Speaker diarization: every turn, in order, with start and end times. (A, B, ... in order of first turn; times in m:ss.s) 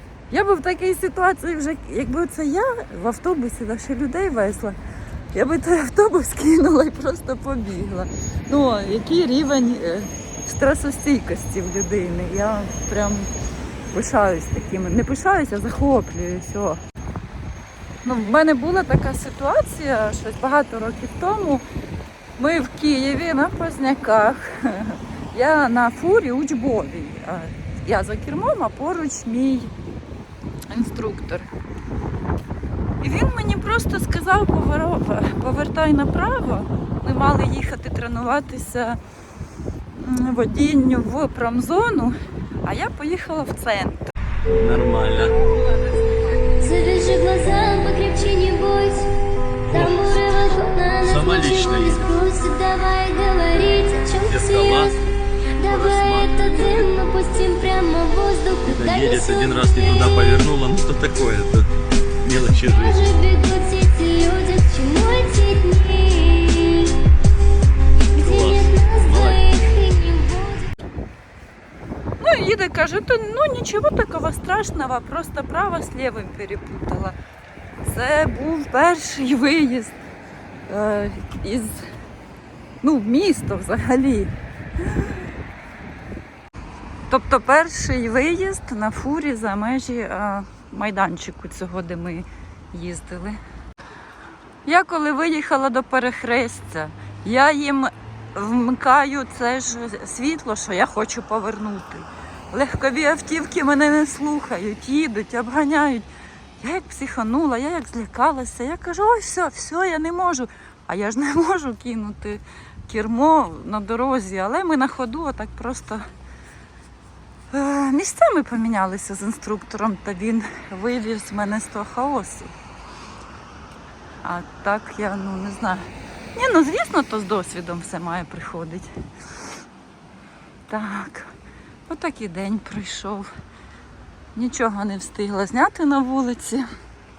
0:00.3-0:04.8 A
0:05.3-0:13.3 A
0:13.9-0:16.8 A
0:18.0-0:21.6 A
0:22.4-0:29.7 A
0:30.7-0:31.5 A
0:33.0-0:39.0 A
0:40.0-0:44.1 A
0:44.5-0:45.3 B
0:46.6-0:49.1 C
0:49.7-0:55.0 C
0:49.7-0:50.2 B
0:51.0-0:52.1 B
0:54.3-0:55.0 B
0:55.6-1:00.2 C
0:55.6-0:56.9 B
0:58.7-1:01.7 B
1:02.2-1:03.0 B
1:02.6-1:07.0 C
1:08.1-1:10.7 C
1:08.2-1:09.4 B
1:12.2-1:17.2 A
1:17.8-1:20.0 A
1:20.7-1:21.9 A
1:22.8-1:24.3 A
1:24.9-1:25.2 A
1:27.1-1:33.4 A
1:34.6-1:46.1 A
1:46.6-1:56.1 A
1:57.5-2:02.5 A
2:04.2-2:08.9 A
2:10.7-2:11.4 A
2:11.9-2:13.3 A
2:14.4-2:16.7 A